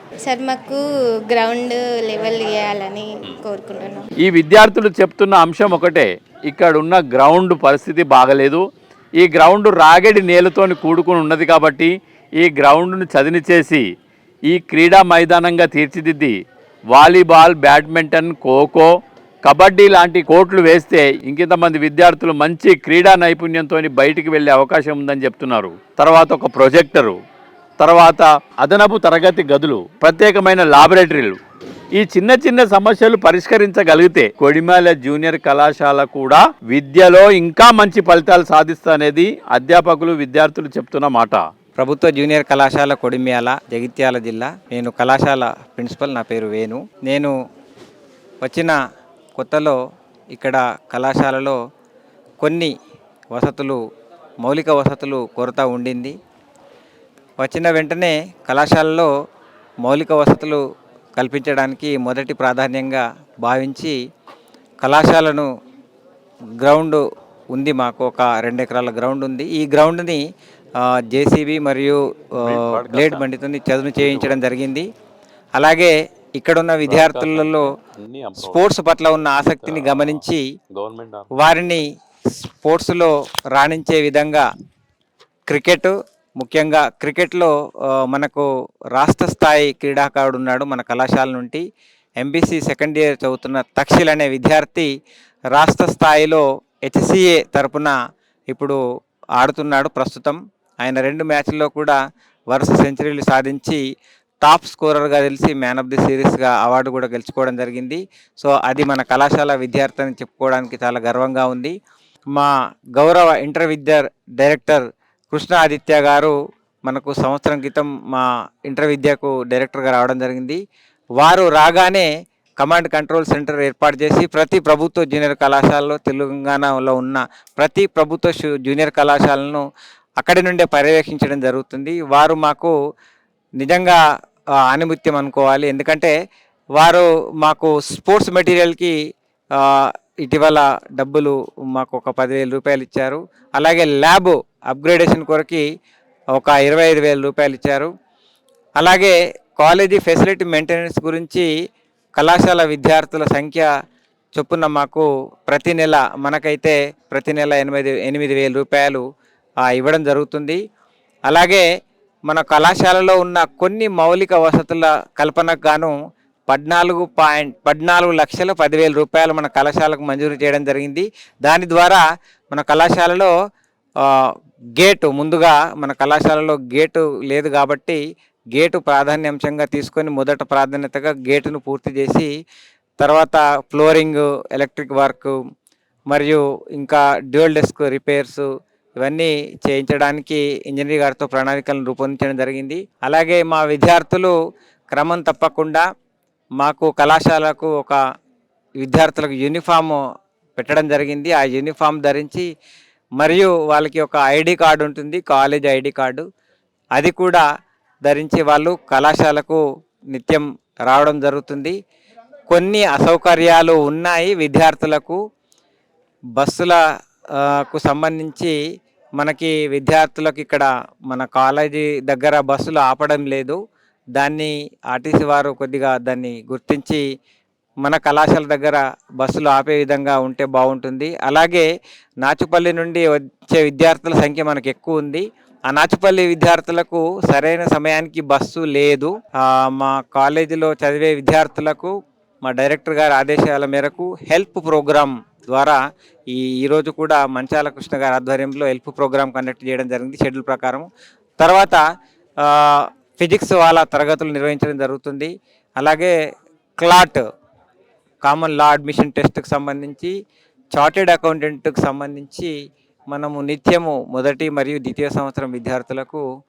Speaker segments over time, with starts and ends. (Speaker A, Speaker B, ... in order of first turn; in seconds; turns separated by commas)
Speaker A: 0.3-4.0, Speaker B: 4.2-8.6, Speaker B: 9.2-13.8, Speaker B: 14.5-16.4, Speaker B: 16.9-18.9, Speaker B: 19.4-27.1, Speaker B: 27.8-31.4, Speaker B: 31.9-41.4, Speaker C: 41.8-47.3, Speaker C: 48.4-48.8, Speaker C: 49.4-49.8, Speaker C: 50.3-51.6, Speaker C: 52.4-52.7, Speaker C: 53.3-53.8, Speaker C: 54.4-56.1, Speaker C: 57.4-59.1, Speaker C: 59.8-60.6, Speaker C: 61.1-64.0, Speaker C: 64.8-65.5, Speaker C: 66.6-67.0, Speaker C: 67.5-70.2, Speaker C: 71.0-72.0, Speaker B: 72.4-73.2, Speaker C: 72.5-74.8, Speaker B: 74.0-74.4, Speaker C: 75.5-77.6, Speaker B: 76.8-78.7, Speaker C: 78.4-80.4, Speaker B: 79.5-81.3, Speaker C: 81.3-81.8, Speaker C: 82.4-84.4, Speaker C: 85.5-87.5, Speaker C: 88.1-91.6, Speaker C: 92.2-94.9, Speaker C: 95.5-97.9, Speaker C: 98.5-98.8, Speaker C: 99.4-102.0, Speaker C: 102.5-103.8, Speaker C: 104.4-111.7, Speaker C: 112.3-120.6, Speaker C: 121.2-122.1, Speaker C: 122.6-129.6, Speaker C: 130.2-132.7, Speaker C: 133.6-134.0, Speaker C: 134.7-136.1, Speaker C: 136.8-138.9, Speaker C: 140.2-145.6, Speaker C: 146.3-147.9, Speaker C: 148.8-151.5, Speaker C: 152.2-153.7, Speaker C: 154.3-159.0, Speaker C: 159.7-160.6, Speaker C: 161.3-161.6, Speaker C: 162.3-165.9, Speaker C: 166.5-173.3, Speaker C: 174.8-178.0, Speaker C: 178.5-182.3, Speaker C: 183.0-185.3, Speaker C: 186.1-188.4, Speaker C: 189.0-194.3, Speaker C: 194.9-195.8, Speaker C: 196.6-198.0, Speaker C: 198.8-200.0, Speaker C: 200.6-202.4, Speaker C: 203.2-206.2, Speaker C: 207.0-207.4, Speaker C: 208.1-209.6, Speaker C: 210.1-211.7, Speaker C: 212.5-215.2, Speaker C: 216.4-216.8, Speaker C: 217.5-218.5, Speaker C: 219.2-223.6, Speaker C: 224.2-227.0, Speaker C: 227.8-231.7, Speaker C: 232.2-239.2, Speaker C: 239.7-241.9, Speaker C: 242.4-245.8, Speaker C: 246.3-250.8, Speaker C: 251.4-251.8, Speaker C: 252.4-256.1, Speaker C: 256.8-257.2, Speaker C: 258.2-260.1, Speaker C: 260.7-262.5, Speaker C: 263.1-266.2